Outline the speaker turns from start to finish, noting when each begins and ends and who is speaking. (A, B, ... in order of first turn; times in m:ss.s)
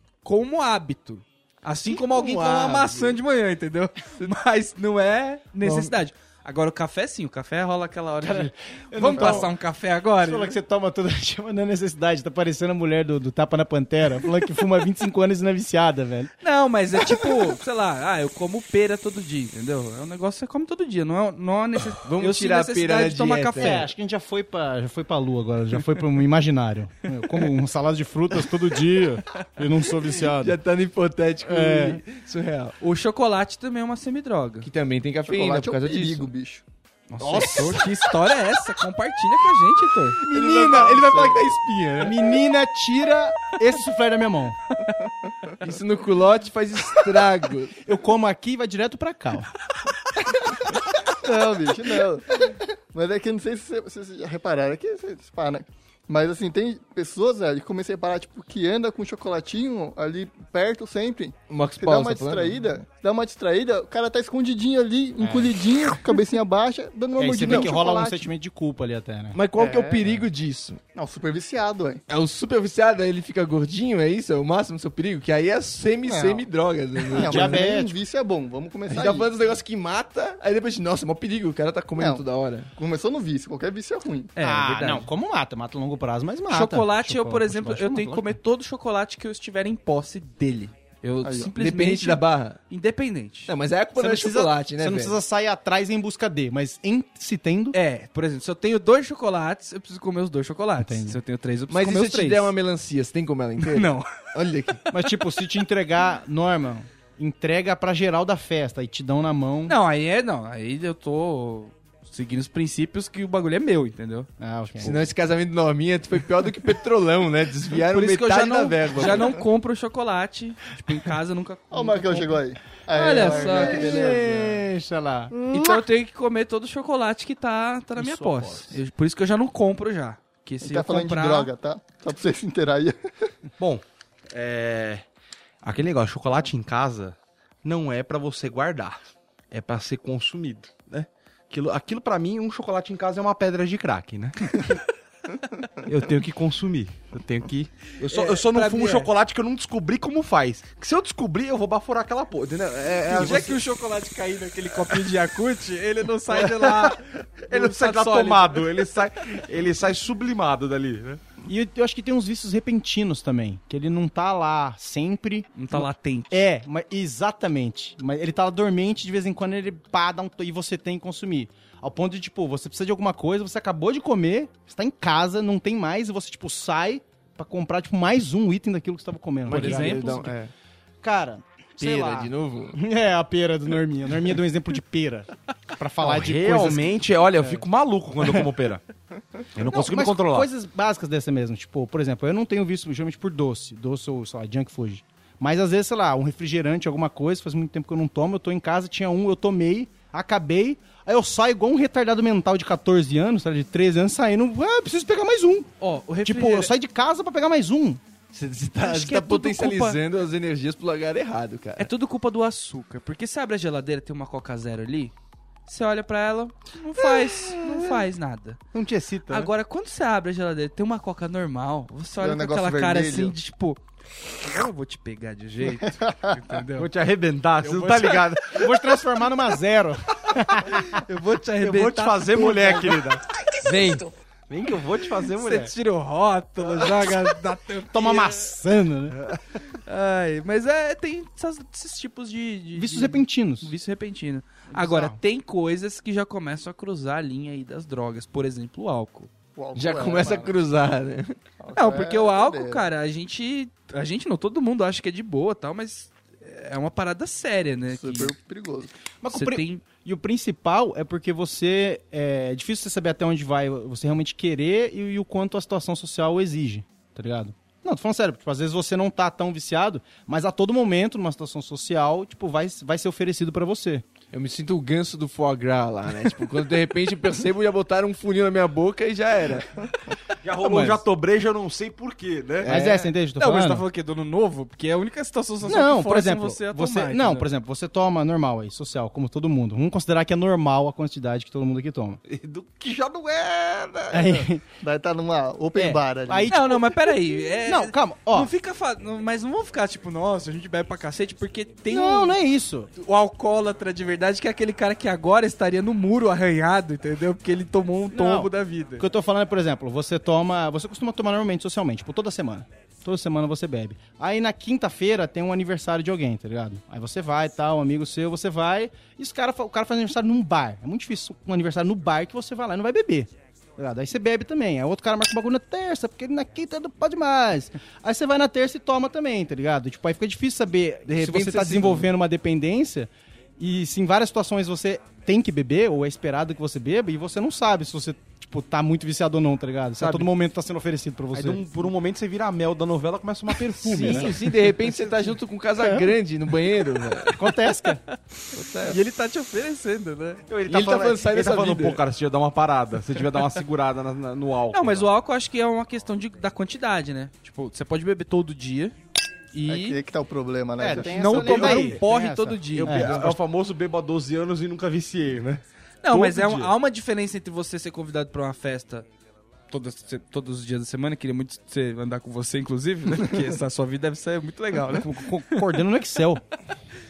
0:00.2-0:10.6 A
0:02.0-0:03.1 B
0:08.2-0:09.5 C
0:10.2-0:16.3 C
0:16.4-0:23.8 A
0:22.0-0:23.9 B
0:23.6-0:30.6 C
0:30.2-0:32.8 B
0:31.4-0:32.0 C
0:32.8-0:34.7 A
0:34.6-0:36.3 B
0:35.3-0:36.6 D
0:37.1-0:40.2 A
0:37.2-0:37.8 C
0:40.2-0:41.3 C
0:40.3-0:42.3 B
0:40.5-0:41.4 D
0:42.0-0:44.6 C
0:45.6-0:47.8 B
0:47.9-0:49.5 C
0:51.2-1:08.2 D
1:01.5-1:02.6 B
1:05.2-1:05.5 C
1:07.2-1:09.4 C
1:07.4-1:07.7 B
1:09.3-1:10.8 B
1:09.6-1:10.0 D
1:11.0-1:12.0 D
1:12.1-1:17.6 B
1:16.1-1:16.5 D
1:17.0-1:19.3 D
1:17.1-1:17.9 C
1:18.9-1:22.7 B
1:22.0-1:22.2 D
1:22.8-1:24.3 D
1:24.4-1:25.1 A
1:24.4-1:28.4 C
1:26.5-1:33.5 A
1:31.2-1:31.5 D
1:31.6-1:32.6 B
1:33.5-1:35.2 B
1:34.0-1:37.8 C
1:37.7-1:42.5 A
1:40.8-1:41.2 C
1:41.7-1:44.8 B
1:43.6-1:44.1 A
1:44.9-1:49.8 C
1:49.6-1:54.3 A
1:54.4-1:55.0 C
1:54.8-1:59.4 B
1:57.9-2:04.1 A
2:01.7-2:04.6 D
2:03.1-2:05.4 C
2:05.4-2:11.5 A
2:08.0-2:08.5 E
2:10.6-2:13.0 D
2:13.6-2:15.0 E
2:15.6-2:24.8 E
2:25.8-2:33.6 E
2:28.0-2:29.1 A
2:33.1-2:38.7 A
2:36.3-2:37.0 E
2:37.5-2:41.2 E
2:41.4-3:00.3 C
2:45.6-2:46.4 A
2:59.5-3:00.5 B
2:59.5-3:00.2 A
3:01.0-3:07.6 C
3:01.8-3:02.8 B
3:06.0-3:08.8 E
3:09.6-3:10.5 E
3:09.6-3:25.7 C
3:25.8-3:26.7 A
3:26.2-3:28.0 C
3:28.3-3:31.9 B
3:28.8-3:30.0 A
3:31.8-3:35.1 A
3:35.6-3:38.6 A
3:37.5-3:37.9 E
3:38.7-3:39.5 E
3:39.3-3:43.8 A
3:42.2-3:43.4 D
3:44.4-3:46.9 A
3:46.0-3:46.4 D
3:46.8-3:48.7 E
3:47.6-3:48.4 A
3:48.5-3:51.0 C
3:50.9-3:53.2 A
3:51.6-3:55.7 E
3:53.6-3:54.0 C
3:55.3-3:58.5 A
3:57.9-3:59.2 C
3:59.6-4:09.3 A
4:02.8-4:03.7 C
4:04.7-4:05.2 C
4:09.6-4:10.5 D
4:09.8-4:11.4 B
4:11.6-4:12.8 D
4:11.8-4:18.3 A
4:17.9-4:18.9 D
4:19.2-4:34.0 C
4:19.3-4:19.8 A
4:34.3-4:39.7 B
4:40.4-4:42.7 E
4:40.6-4:41.0 C
4:42.6-4:43.1 B
4:42.6-4:43.8 C
4:43.4-4:47.5 A
4:45.6-4:52.2 C
4:52.3-4:54.2 E
4:54.1-4:54.6 C
4:54.4-4:56.5 D
4:55.8-4:58.5 C
4:56.5-5:02.4 A
5:01.9-5:02.9 C
5:02.9-5:09.0 A
5:08.1-5:41.6 C
5:31.1-5:32.1 B
5:40.0-5:40.3 E
5:41.3-5:44.4 E
5:43.8-5:44.3 C
5:43.9-5:47.4 B
5:47.4-5:48.0 C
5:48.5-5:49.0 B
5:48.8-5:50.4 A
5:50.5-5:55.1 E
5:50.7-5:52.0 B
5:54.7-5:59.0 A
5:59.5-6:00.0 A
5:59.7-6:01.4 D
6:00.8-6:03.4 C
6:01.0-6:03.3 A
6:01.3-6:02.0 E
6:02.7-6:06.7 E
6:06.0-6:09.1 A
6:09.7-6:15.7 A
6:15.0-6:16.4 C